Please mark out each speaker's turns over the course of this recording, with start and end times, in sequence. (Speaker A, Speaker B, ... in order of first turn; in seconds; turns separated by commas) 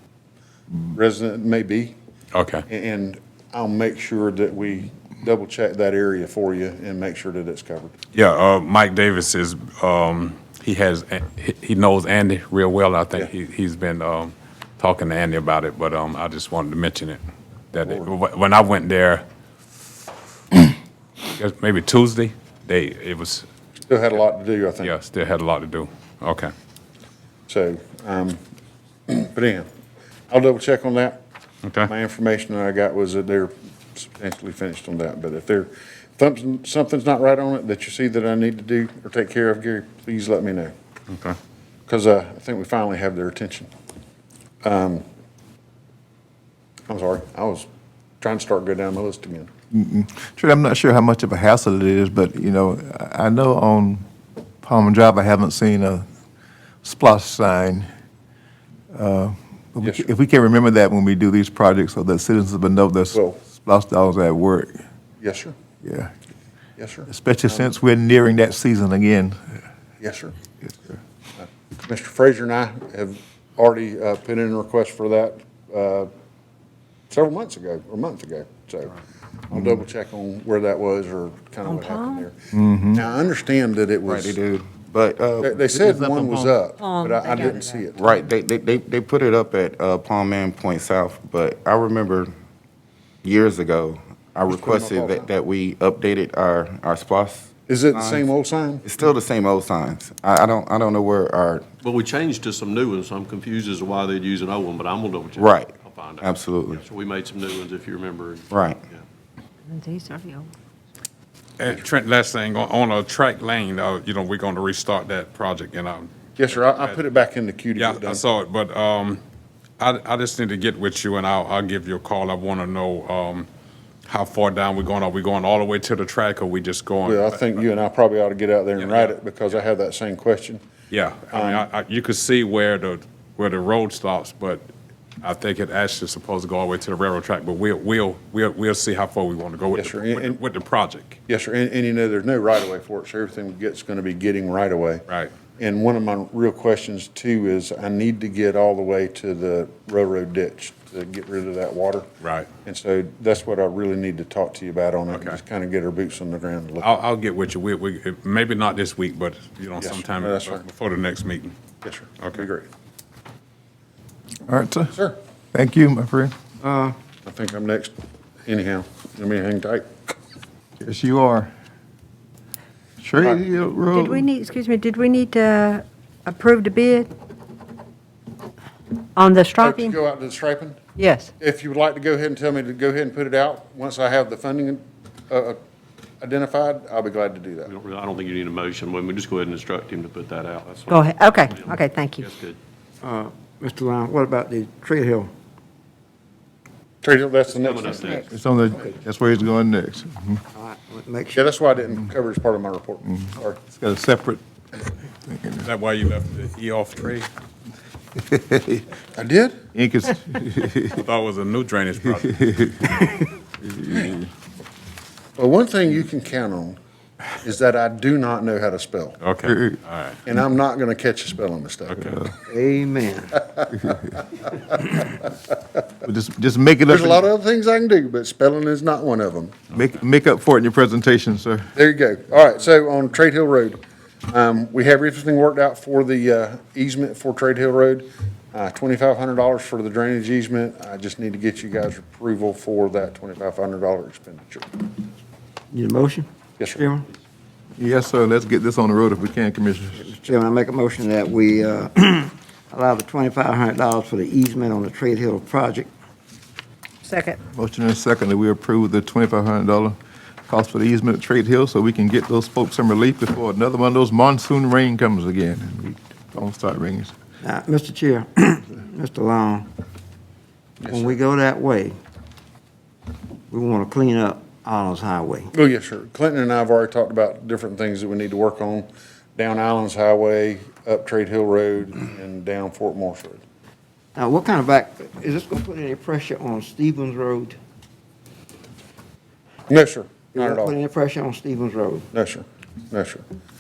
Speaker A: 0.9-1.9, Speaker B: 2.3-2.6, Speaker A: 2.7-7.9, Speaker B: 8.1-17.2, Speaker B: 17.7-19.2, Speaker B: 21.4-23.4, Speaker A: 23.9-24.9, Speaker B: 24.8-26.5, Speaker A: 27.5-28.4, Speaker A: 29.1-29.7, Speaker A: 30.3-31.2, Speaker B: 31.6-31.9, Speaker A: 31.9-40.7, Speaker B: 41.1-41.4, Speaker A: 41.9-43.7, Speaker A: 44.6-45.0, Speaker A: 46.9-47.7, Speaker A: 48.2-49.5, Speaker C: 49.7-54.0, Speaker C: 54.6-56.0, Speaker C: 56.8-57.9, Speaker C: 58.9-64.8, Speaker A: 65.2-65.5, Speaker C: 65.8-66.1, Speaker A: 66.8-67.7, Speaker C: 67.1-69.4, Speaker A: 70.0-70.3, Speaker C: 70.6-71.0, Speaker A: 71.4-76.1, Speaker A: 77.1-82.3, Speaker D: 81.6-82.2, Speaker C: 82.5-83.0, Speaker A: 82.9-84.4, Speaker E: 84.1-85.6, Speaker A: 85.4-88.1, Speaker D: 86.8-87.8, Speaker E: 87.9-92.3, Speaker E: 93.2-98.3, Speaker A: 94.5-95.3, Speaker A: 97.7-98.8, Speaker E: 98.8-101.6, Speaker F: 101.8-109.0, Speaker E: 105.4-106.8, Speaker E: 108.5-108.8, Speaker D: 109.7-110.5, Speaker B: 111.6-117.0, Speaker A: 116.4-118.2, Speaker B: 117.8-119.2, Speaker B: 119.8-123.5, Speaker B: 124.0-127.6, Speaker A: 127.0-130.6, Speaker B: 128.8-129.6, Speaker B: 130.9-134.7, Speaker A: 131.3-131.7, Speaker B: 135.2-141.2, Speaker A: 139.7-140.4, Speaker A: 141.3-145.1, Speaker B: 145.1-145.3, Speaker A: 145.6-152.1, Speaker B: 152.2-152.5, Speaker A: 152.6-156.9, Speaker B: 155.1-155.4, Speaker B: 156.8-161.5, Speaker A: 159.8-160.6, Speaker A: 161.8-162.7, Speaker B: 162.2-162.4, Speaker C: 164.5-164.9, Speaker C: 165.5-166.3, Speaker G: 166.6-166.9, Speaker A: 167.2-167.9, Speaker A: 168.4-169.9, Speaker C: 170.8-171.5, Speaker C: 173.0-174.2, Speaker A: 173.2-173.4, Speaker D: 173.9-177.1, Speaker D: 179.2-179.9, Speaker A: 179.6-180.8, Speaker D: 181.0-181.3, Speaker A: 181.4-185.6, Speaker A: 186.2-187.7, Speaker F: 187.6-192.6, Speaker D: 190.9-192.2, Speaker G: 193.0-195.3, Speaker A: 197.0-198.3, Speaker F: 197.4-198.3, Speaker G: 197.9-198.2, Speaker C: 198.3-200.4, Speaker G: 200.5-201.5, Speaker A: 201.3-203.6, Speaker C: 203.1-204.4, Speaker C: 205.2-205.7, Speaker B: 205.6-207.3, Speaker C: 208.2-208.8, Speaker A: 209.1-209.6, Speaker C: 209.7-211.0, Speaker B: 210.9-212.3, Speaker C: 212.2-213.1, Speaker C: 213.6-214.3, Speaker A: 215.4-216.8, Speaker A: 217.4-219.2, Speaker B: 219.2-220.2, Speaker C: 219.4-219.8, Speaker A: 220.2-222.2, Speaker B: 221.9-222.2, Speaker G: 222.5-223.4, Speaker A: 223.6-223.9, Speaker C: 226.0-227.2, Speaker A: 226.9-229.6, Speaker C: 229.7-231.7, Speaker A: 231.7-244.9, Speaker G: 245.7-247.1, Speaker C: 247.8-250.1, Speaker G: 250.0-255.9, Speaker D: 257.0-257.4, Speaker C: 257.5-267.1, Speaker G: 267.4-269.7, Speaker G: 270.8-271.9, Speaker A: 270.8-271.1, Speaker G: 273.5-275.5, Speaker A: 275.5-283.4, Speaker G: 284.1-287.6, Speaker A: 289.7-290.7, Speaker G: 290.3-292.1, Speaker A: 292.1-293.2